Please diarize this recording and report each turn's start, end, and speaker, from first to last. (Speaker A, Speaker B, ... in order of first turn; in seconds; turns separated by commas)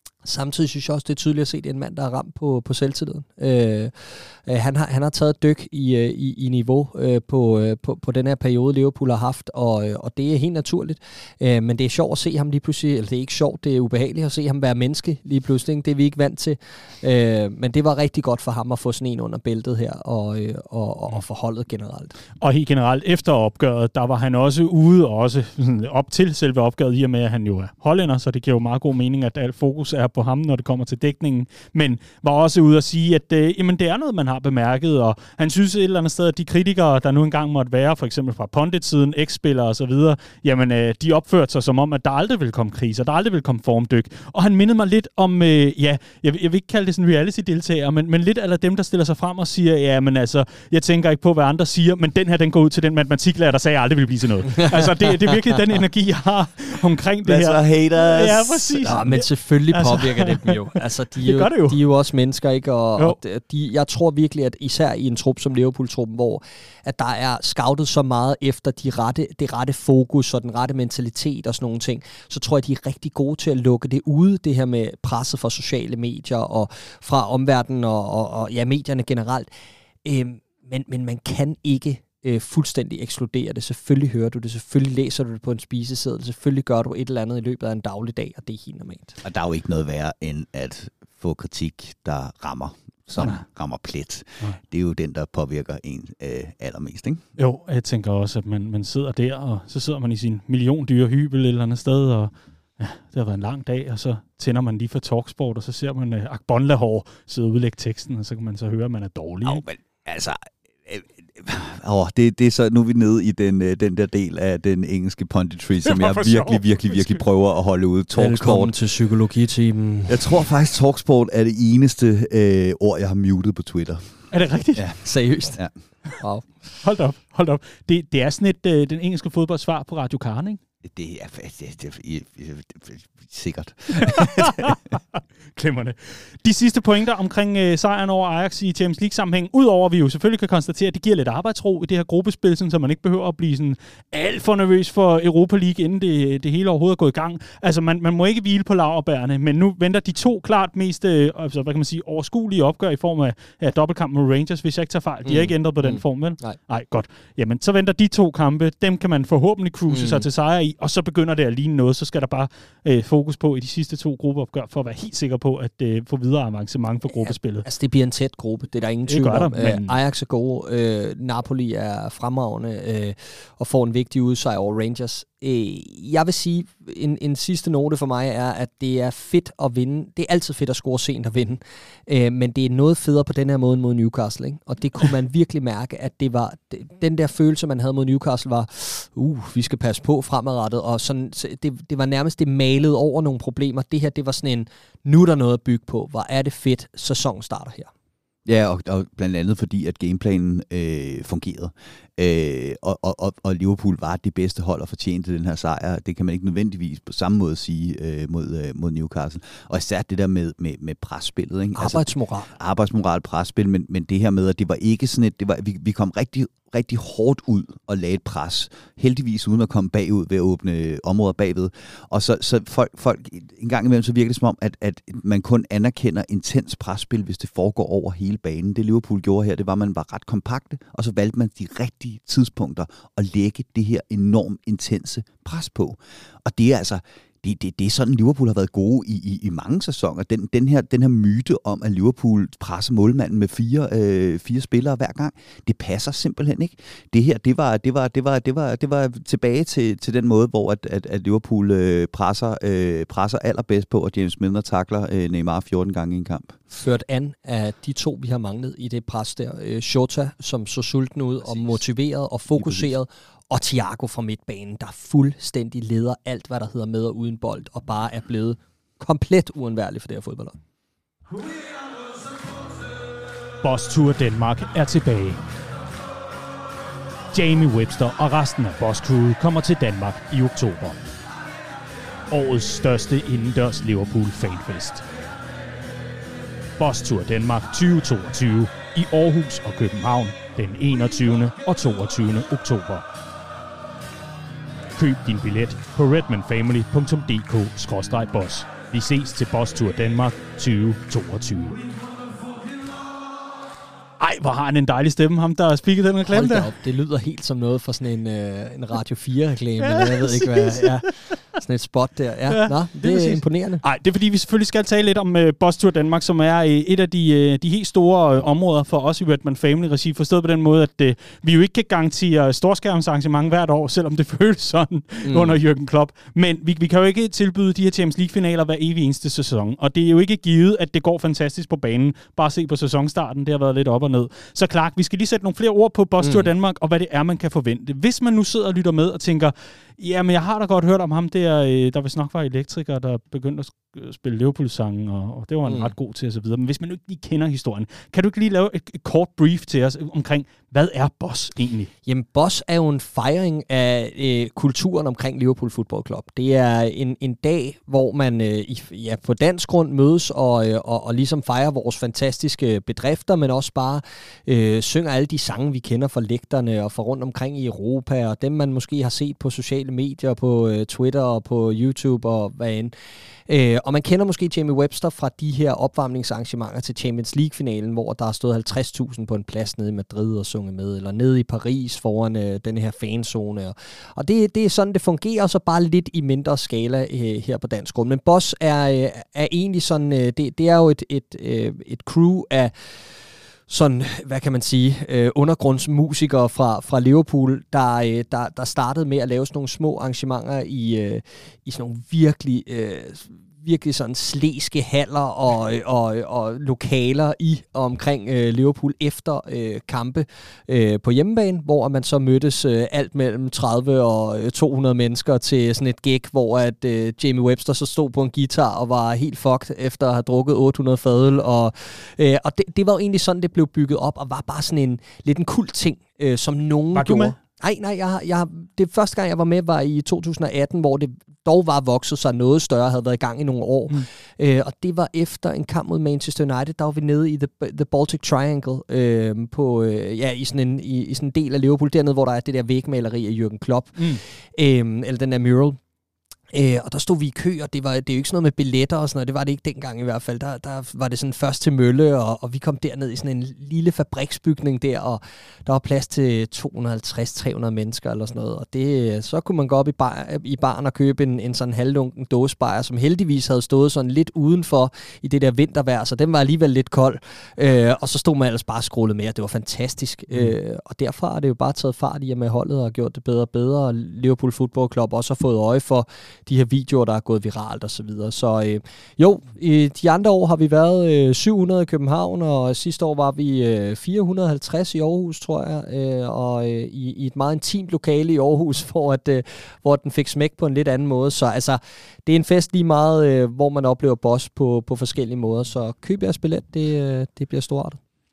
Speaker A: 0.2-22.2, Speaker B: 22.4-61.8, Speaker C: 57.2-59.1, Speaker A: 58.9-79.5, Speaker A: 80.0-89.2, Speaker C: 89.2-97.2, Speaker B: 97.4-109.6, Speaker C: 109.4-118.7, Speaker B: 115.8-117.2, Speaker A: 118.2-120.4, Speaker C: 120.1-124.1, Speaker B: 124.3-124.9, Speaker C: 124.8-125.0, Speaker A: 125.0-125.6, Speaker A: 126.2-126.5, Speaker B: 126.8-130.6, Speaker C: 130.8-134.8, Speaker B: 134.0-135.0, Speaker B: 135.6-167.7, Speaker A: 155.3-156.6, Speaker A: 159.9-160.3, Speaker A: 167.1-197.9, Speaker B: 169.1-169.9, Speaker C: 198.4-256.6, Speaker A: 211.8-212.5, Speaker A: 256.7-270.6, Speaker B: 273.6-275.4, Speaker B: 277.3-281.0, Speaker B: 282.3-285.1, Speaker B: 286.8-293.1, Speaker B: 295.0-301.8, Speaker B: 304.2-306.7, Speaker A: 306.3-313.8, Speaker B: 309.8-311.1, Speaker B: 312.5-351.9, Speaker A: 325.3-325.6, Speaker A: 336.2-336.5, Speaker A: 345.7-345.9, Speaker A: 352.1-372.9, Speaker A: 373.5-392.7, Speaker A: 393.7-445.8, Speaker B: 426.9-427.4, Speaker A: 446.5-498.0